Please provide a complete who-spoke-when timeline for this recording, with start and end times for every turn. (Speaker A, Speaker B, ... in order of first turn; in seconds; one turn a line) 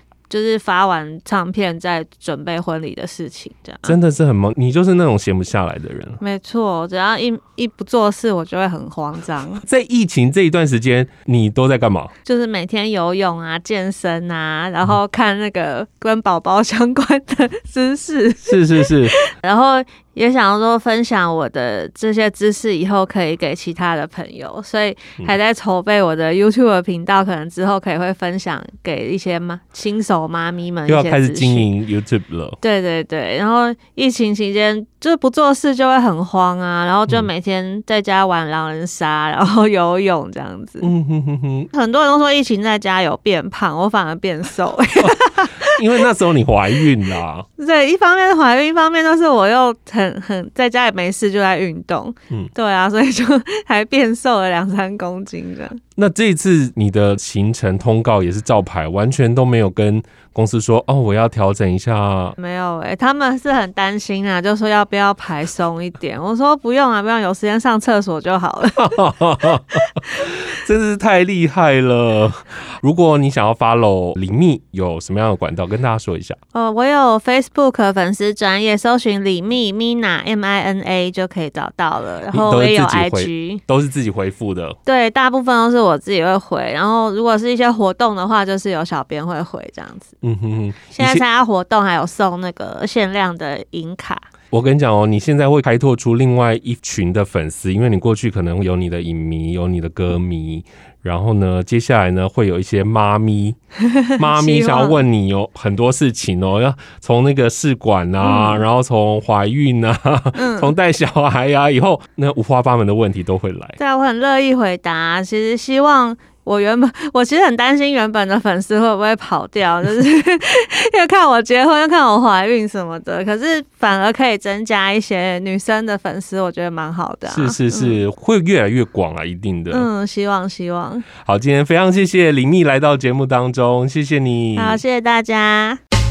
Speaker A: 0.3-4.0
Speaker B: 3.8-6.2
Speaker A: 6.2-9.6
Speaker B: 9.6-12.1
Speaker A: 12.2-31.7
Speaker B: 18.4-19.2
Speaker B: 30.9-32.6
Speaker A: 32.6-40.9
Speaker B: 40.8-41.7
Speaker A: 41.7-45.8
Speaker B: 45.0-47.5
Speaker A: 47.6-55.8
Speaker B: 56.0-62.4
Speaker A: 62.4-69.8
Speaker B: 68.8-76.4
Speaker A: 76.5-83.6
Speaker B: 82.3-84.8
Speaker A: 84.8-90.1
Speaker B: 90.2-91.2
Speaker A: 90.9-94.2
Speaker B: 94.5-103.6
Speaker A: 103.9-105.0
Speaker B: 104.2-113.8
Speaker A: 108.2-108.7
Speaker A: 110.3-110.7
Speaker A: 113.8-128.0
Speaker B: 127.3-129.9
Speaker A: 129.7-131.1
Speaker B: 131.2-134.8
Speaker A: 134.6-135.8